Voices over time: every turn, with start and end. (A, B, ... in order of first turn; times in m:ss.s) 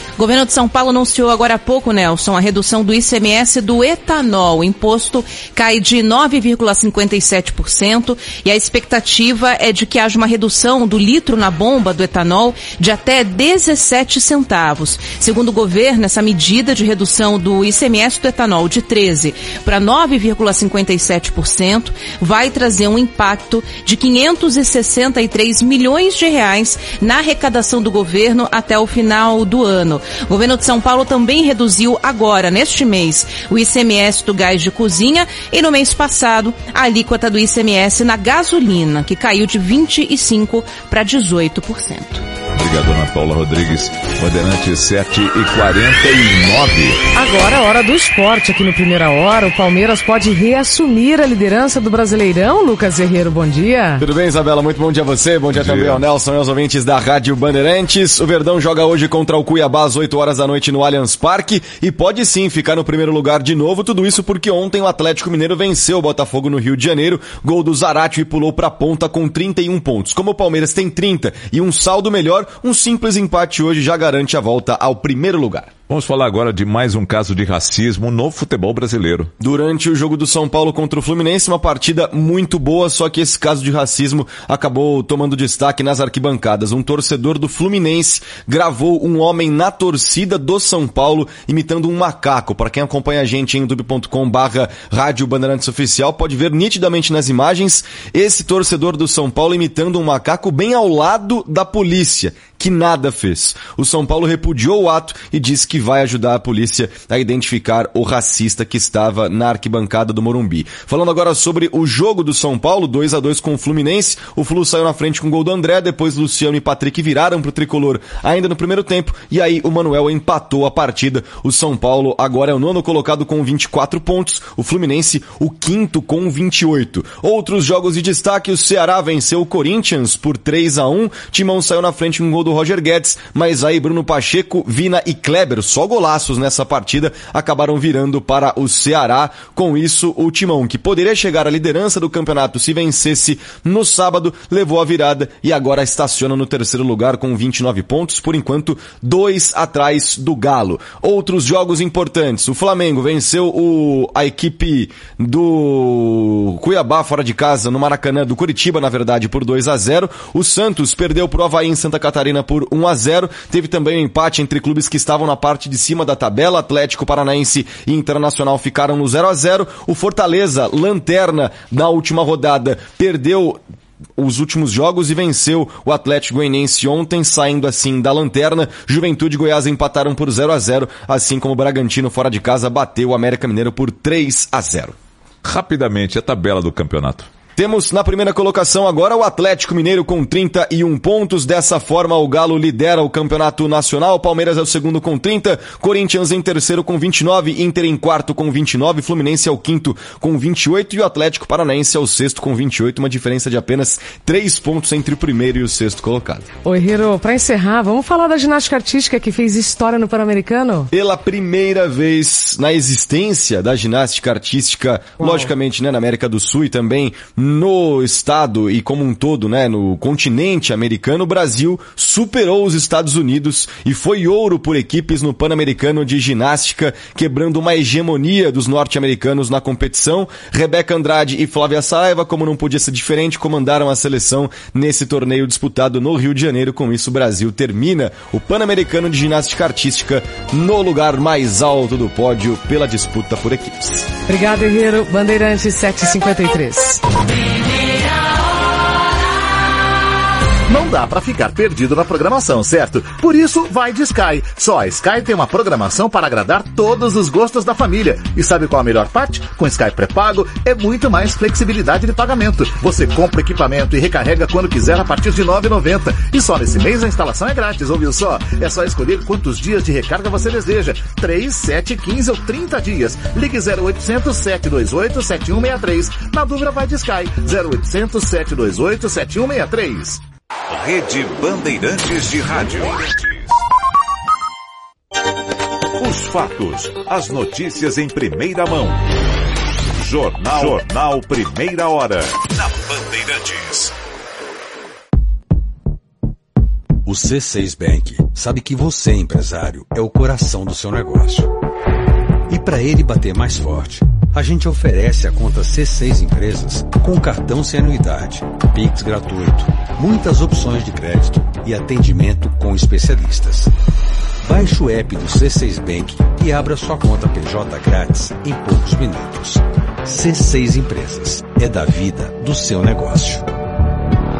0:00.2-0:42.2 A
0:42.5-0:47.0 B
0:47.1-0:54.0 C
0:54.0-1:15.7 D
0:55.5-0:56.0 B
1:15.9-1:19.3 B
1:19.4-2:53.6 D
2:54.2-3:04.9 D
3:05.4-3:07.3 B
3:07.6-3:26.5 D
3:26.6-3:30.9 C
3:30.9-4:04.1 D
3:35.2-3:35.5 C
4:04.3-4:07.0 C
4:10.7-4:40.2 E
4:40.7-4:43.5 B
4:46.0-4:49.0 B
4:49.9-4:53.9 B
4:57.0-5:01.5 F
5:02.5-5:13.7 F
5:14.4-5:19.6 F
5:20.1-5:23.4 F